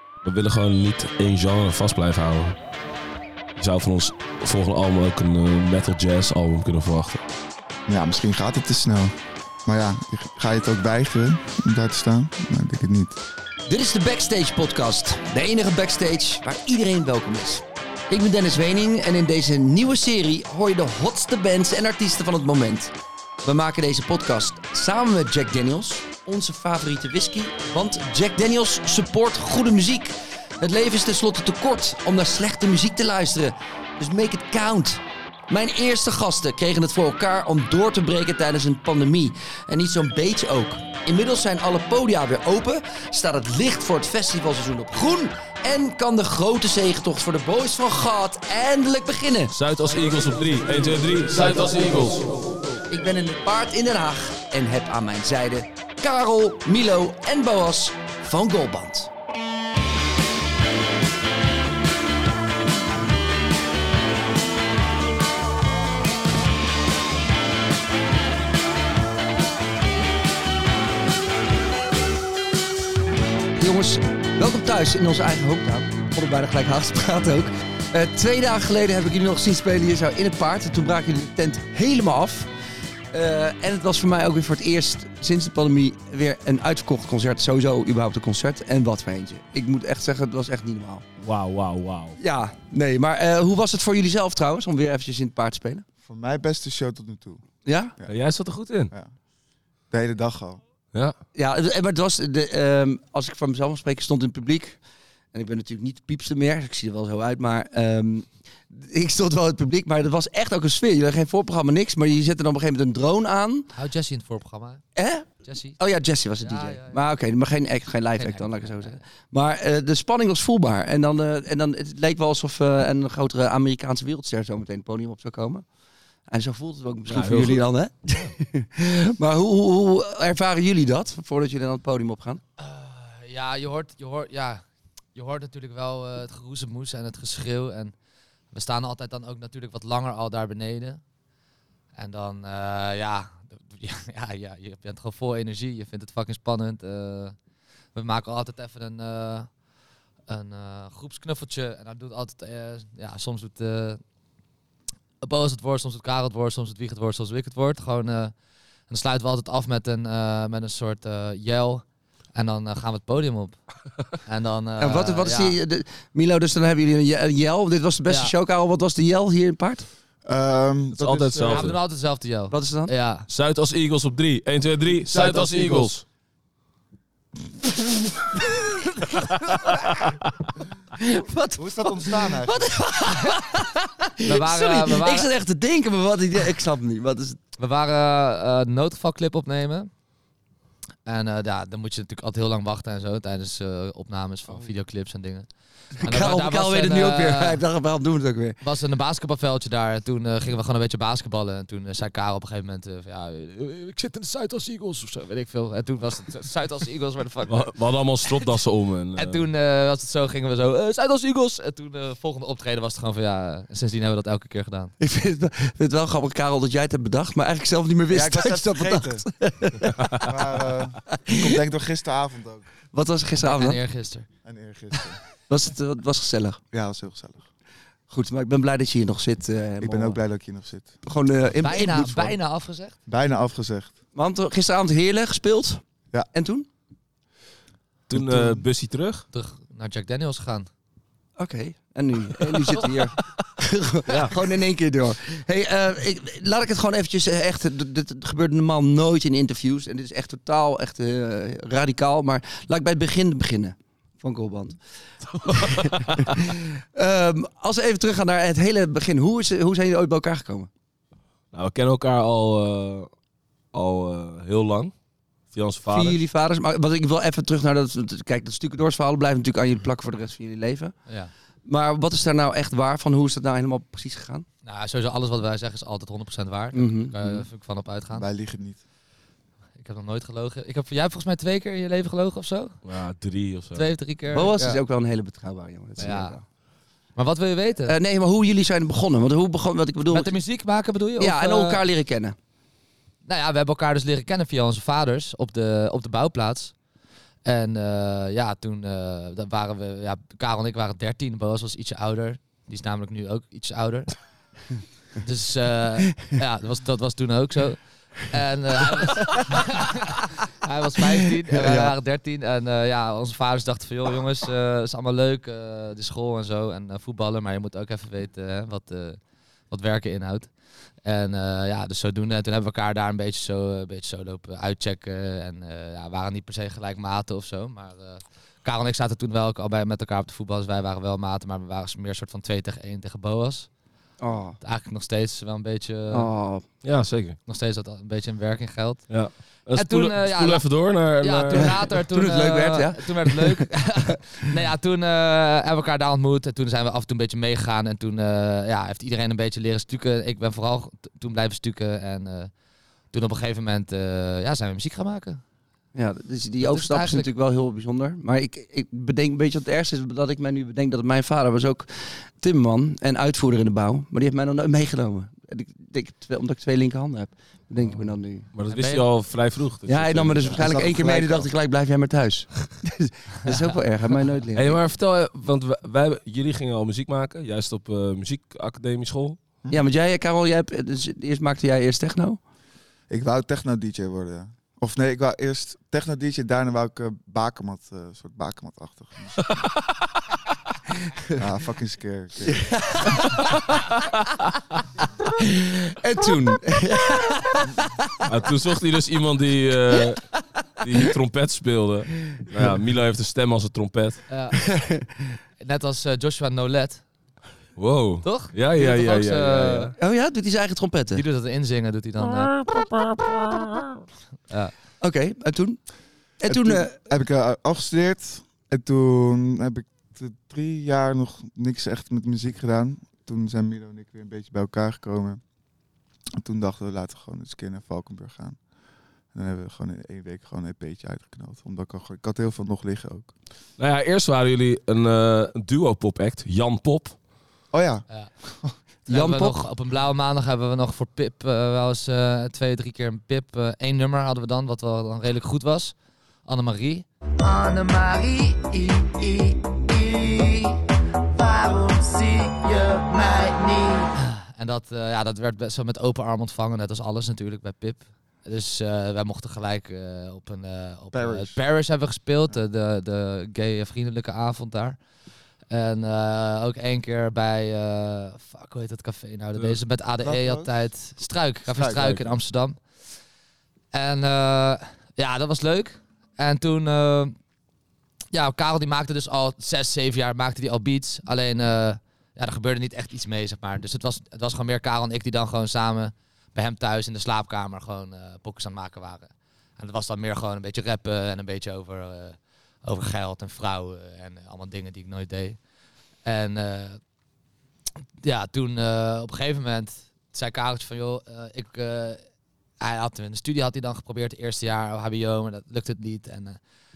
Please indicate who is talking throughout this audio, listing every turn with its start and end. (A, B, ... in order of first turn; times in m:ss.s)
0:00.2-0:02.6 A
0:03.6-0:07.2 A
0:07.9-0:09.1 B
0:09.6-0:13.2 B
0:13.7-0:49.5 C
0:49.5-0:52.4 A
0:52.9-0:59.1 C
1:13.6-1:22.5 C
1:23.1-1:31.0 C
1:31.2-1:32.2 A
1:32.2-1:35.8 C
1:36.0-1:37.4 B
1:37.7-1:37.9 C
1:38.1-1:38.9 A
1:39.9-1:40.6 B
1:41.3-1:44.8 C
1:45.3-1:53.7 C
1:53.8-1:54.8 D
1:55.0-2:05.6 C
1:55.4-1:55.8 D
1:56.4-1:57.2 D
1:58.2-1:59.0 D
2:06.3-2:12.4 C
2:07.1-2:08.3 A
2:12.6-2:14.6 D
2:15.2-2:17.9 D
2:18.5-2:21.0 D
2:22.0-2:27.4 D
2:27.9-2:29.5 D
2:30.3-2:34.0 D
2:35.2-2:38.3 D
2:38.9-2:43.6 D
2:44.2-2:45.6 D
2:44.8-2:49.9 C
2:48.1-2:48.3 D
2:50.2-2:51.8 B
2:51.0-2:51.8 A
2:51.5-2:53.3 D
2:52.5-2:52.9 C
2:53.3-2:56.0 A
2:55.0-2:55.9 B
3:01.0-3:07.4 C
3:01.6-3:02.7 B
3:04.2-3:05.3 D
3:07.6-3:09.9 D
3:11.0-3:17.6 D
3:16.0-3:18.6 C
3:18.6-3:27.7 D
3:27.5-3:29.5 A
3:29.2-3:34.9 D
3:35.0-3:40.4 C
3:38.1-3:39.2 B
3:40.1-3:42.7 B
3:41.1-3:41.6 C
3:42.9-3:43.8 C
3:43.4-3:44.3 D
3:44.4-3:45.2 B
3:45.5-3:46.6 C
3:46.7-3:47.5 B
3:48.1-3:50.2 C
3:49.8-3:51.0 B
3:51.0-3:52.4 C
3:51.6-3:52.9 D
3:53.1-3:54.0 B
3:54.2-3:55.8 C
3:56.3-3:56.7 C
3:58.1-3:59.2 A
3:58.1-3:58.7 B
3:59.3-4:00.7 D
4:01.4-4:14.8 C
4:04.1-4:04.4 A
4:15.3-4:16.4 A
4:15.4-4:20.7 C
4:21.5-4:23.1 A
4:23.7-4:24.9 A
4:25.5-4:26.2 A
4:25.9-4:31.0 C
4:31.1-4:31.3 D
4:31.7-4:34.5 C
4:34.6-4:38.3 D
4:36.7-4:37.5 C
4:38.1-4:38.8 B
4:39.8-4:42.8 D
4:42.8-4:43.9 A
4:43.7-4:44.8 D
4:44.3-4:46.4 C
4:46.0-4:46.4 D
4:47.2-4:48.0 D
4:47.9-4:50.4 C
4:50.1-4:51.8 D
4:51.2-4:52.4 C
4:53.2-4:56.7 D
4:57.4-5:04.1 D
5:05.2-5:19.2 D
5:11.5-5:11.9 C
5:19.7-5:20.5 D
5:21.0-5:33.7 D
5:34.2-5:34.6 C
5:34.6-5:36.3 D
5:36.1-5:36.6 C
5:36.8-5:37.4 A
5:37.5-5:39.0 D
5:39.1-5:41.9 A
5:39.7-5:40.7 D
5:41.2-5:52.5 D
5:41.6-5:43.6 C
5:53.1-5:55.4 D
5:55.9-6:08.5 C
5:56.6-5:57.3 D
6:07.8-6:10.8 A
6:08.7-6:09.1 D
6:09.9-6:14.8 C
6:10.5-6:11.5 B
6:13.4-6:13.7 D
6:14.6-6:19.4 A
6:19.7-6:22.4 C
6:23.1-6:29.4 B
6:31.4-6:32.8 B
6:32.4-6:33.8 C
6:35.4-6:38.0 C
6:38.2-6:44.2 A
6:44.3-6:44.6 D
6:44.6-6:45.4 C
6:45.6-6:47.0 D
6:47.8-6:50.0 A
6:48.2-6:50.0 D
6:50.0-6:51.2 C
6:51.1-6:52.5 D
6:52.4-6:53.9 A
6:55.0-6:55.8 C
6:56.4-6:57.0 C
6:56.5-7:05.4 B
7:06.4-7:08.6 B
7:09.3-7:13.3 B
7:13.8-7:17.2 A
7:17.7-7:18.8 B
7:19.1-7:27.1 D
7:19.1-7:19.6 C
7:27.4-7:34.1 E
7:34.2-7:45.0 D
7:41.1-7:41.6 B
7:45.7-7:52.8 D
7:50.2-7:50.9 B
7:51.7-7:52.3 B
7:53.9-7:57.4 D
7:58.3-8:15.6 D
8:16.2-8:17.0 D
8:18.2-8:22.2 D
8:22.8-8:26.6 D